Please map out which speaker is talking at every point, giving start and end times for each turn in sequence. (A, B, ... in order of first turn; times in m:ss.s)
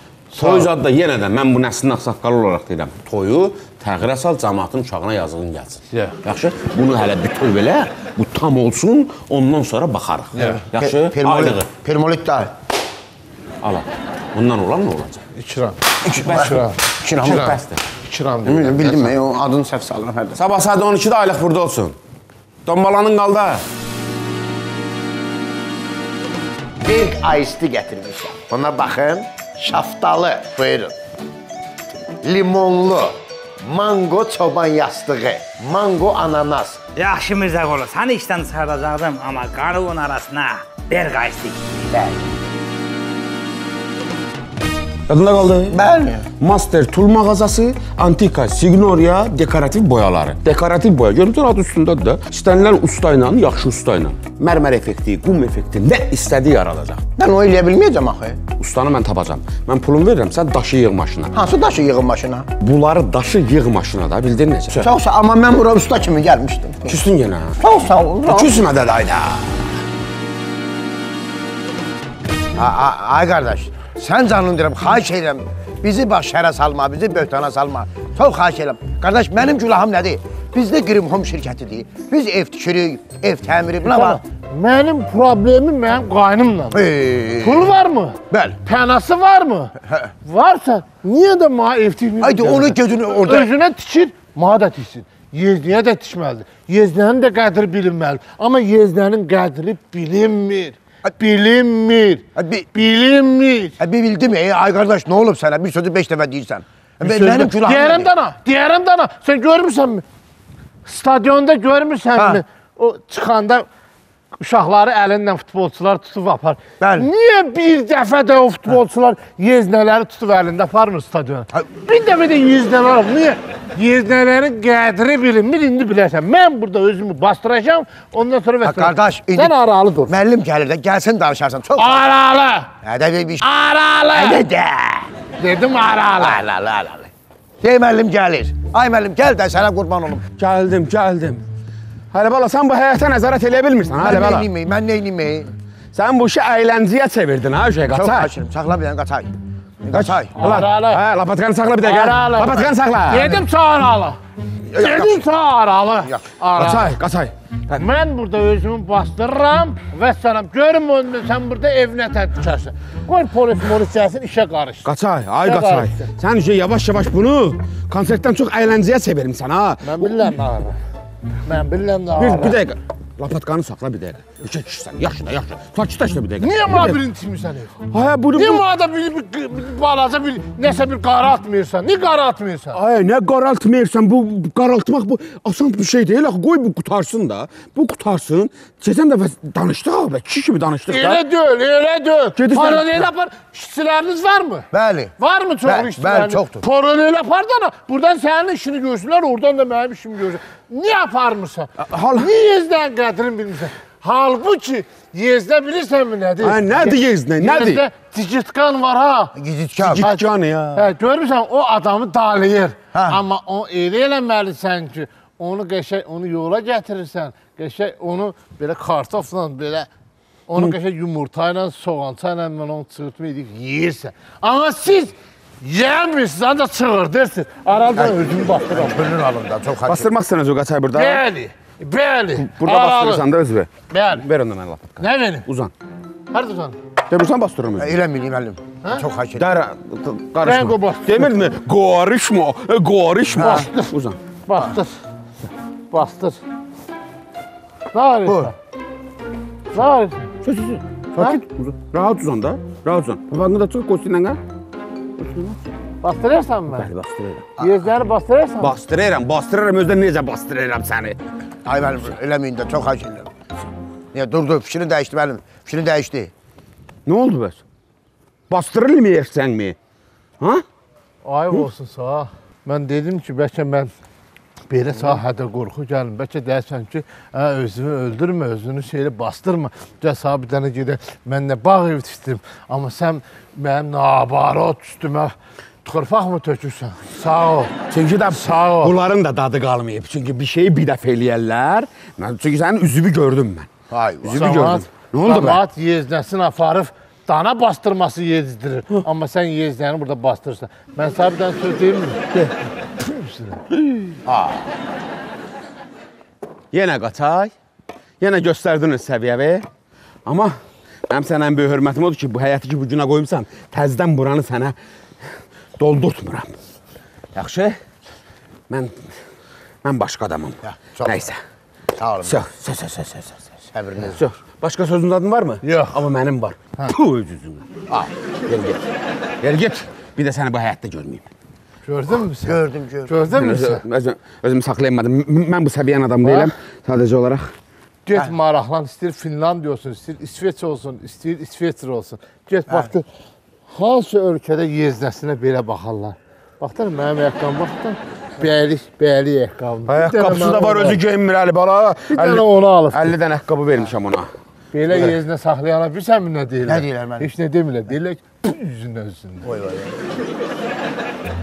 0:00.3-0:00.6 A
0:00.4-0:11.6 B
0:10.3-0:10.6 A
0:10.4-0:12.5 C
0:13.6-0:15.2 B
0:15.4-0:19.1 A
0:16.0-0:17.6 C
0:16.2-0:16.6 B
0:17.2-0:17.8 B
0:18.4-0:20.4 C
0:20.4-0:22.0 B
0:22.6-0:23.6 B
0:26.8-0:31.0 C
0:32.2-0:36.8 C
0:37.0-0:41.9 D
0:41.9-0:42.3 C
0:45.1-0:45.8 B
0:45.7-0:46.3 C
0:46.4-0:57.0 B
0:57.2-0:58.4 C
0:58.6-1:01.3 B
1:01.3-1:02.5 C
1:02.6-1:04.9 B
1:04.7-1:07.0 C
1:06.8-1:07.6 B
1:07.6-1:08.6 C
1:08.2-1:09.8 B
1:12.5-1:24.2 C
1:23.9-1:26.8 A
1:26.7-1:27.7 C
1:27.4-1:43.8 A
1:28.3-1:28.6 C
1:29.8-1:30.1 C
1:32.2-1:33.5 C
1:42.4-1:42.7 C
1:43.8-1:48.1 C
1:47.0-1:50.0 A
1:50.8-1:53.7 A
1:52.2-1:52.4 C
1:54.4-2:10.1 A
1:56.8-1:57.1 C
2:08.6-2:09.5 C
2:10.0-2:12.0 C
2:11.8-2:12.7 A
2:12.8-2:13.5 C
2:13.4-2:14.4 A
2:14.1-2:15.1 C
2:15.4-2:16.4 A
2:16.2-2:20.2 C
2:20.4-2:21.4 B
2:22.1-2:24.5 B
2:24.0-2:25.5 C
2:25.9-2:28.3 B
2:27.9-2:29.3 C
2:29.8-2:30.3 C
2:29.9-2:33.4 B
2:30.4-2:31.0 A
2:31.8-2:34.2 A
2:34.7-2:35.2 B
2:34.7-2:37.0 A
2:36.6-2:37.3 B
2:37.7-2:44.9 A
2:44.8-2:50.3 B
2:45.4-2:46.1 A
2:49.8-2:50.8 A
2:51.4-2:52.6 A
2:52.2-2:57.0 B
2:56.4-2:57.8 A
2:57.9-2:58.6 B
2:58.3-3:02.8 A
3:02.7-3:11.2 B
3:10.9-3:14.7 A
3:12.4-3:13.0 B
3:14.7-3:15.1 C
3:15.2-3:29.3 A
3:15.6-3:16.6 C
3:21.8-3:22.3 B
3:26.4-3:27.8 B
3:29.4-3:30.1 C
3:29.8-3:30.9 B
3:30.7-3:39.9 A
3:32.9-3:33.2 C
3:40.5-3:49.1 A
3:48.0-3:50.1 C
3:49.9-3:51.2 B
3:50.9-3:53.2 A
3:52.4-3:55.7 B
3:53.9-3:54.2 A
3:55.0-3:55.4 A
3:56.3-3:56.8 A
3:57.1-3:58.0 B
3:57.8-3:59.5 C
3:59.4-4:04.2 B
4:00.4-4:01.4 A
4:03.4-4:03.6 C
4:03.4-4:03.9 A
4:04.5-4:05.0 A
4:05.9-4:06.4 A
4:07.9-4:08.5 A
4:08.2-4:08.5 C
4:09.7-4:10.3 A
4:10.4-4:14.4 B
4:11.1-4:11.7 C
4:15.2-4:15.6 B
4:16.0-4:16.9 A
4:16.7-4:17.5 B
4:17.6-4:18.7 A
4:18.6-4:21.2 B
4:21.6-4:23.3 C
4:24.1-4:26.3 C
4:27.0-4:27.6 B
4:28.5-4:29.8 B
4:31.2-4:33.9 A
4:34.7-4:47.7 A
4:47.9-4:53.7 B
4:48.3-4:48.9 A
4:53.9-4:54.7 C
4:54.2-4:55.6 B
4:54.3-5:02.2 A
5:03.0-5:03.6 A
5:03.8-5:04.2 B
5:04.3-5:04.6 C
5:06.7-5:07.5 B
5:08.2-5:09.6 B
5:10.2-5:10.6 B
5:11.1-5:14.7 B
5:15.8-5:16.6 B
5:17.3-5:17.8 B
5:18.7-5:19.1 B
5:19.8-5:21.4 B
5:20.6-5:21.3 C
5:22.0-5:22.4 C
5:22.2-5:23.4 B
5:23.7-5:24.2 C
5:24.0-5:28.8 B
5:25.6-5:26.0 A
5:29.4-5:31.3 B
5:31.8-5:33.8 A
5:32.4-5:33.1 C
5:33.3-5:37.5 B
5:36.2-5:36.5 A
5:38.1-5:43.0 A
5:43.7-5:51.0 A
5:49.9-5:54.3 B
5:52.1-5:53.1 A
5:54.7-5:59.5 A
5:56.6-5:57.3 C
5:59.4-6:00.0 C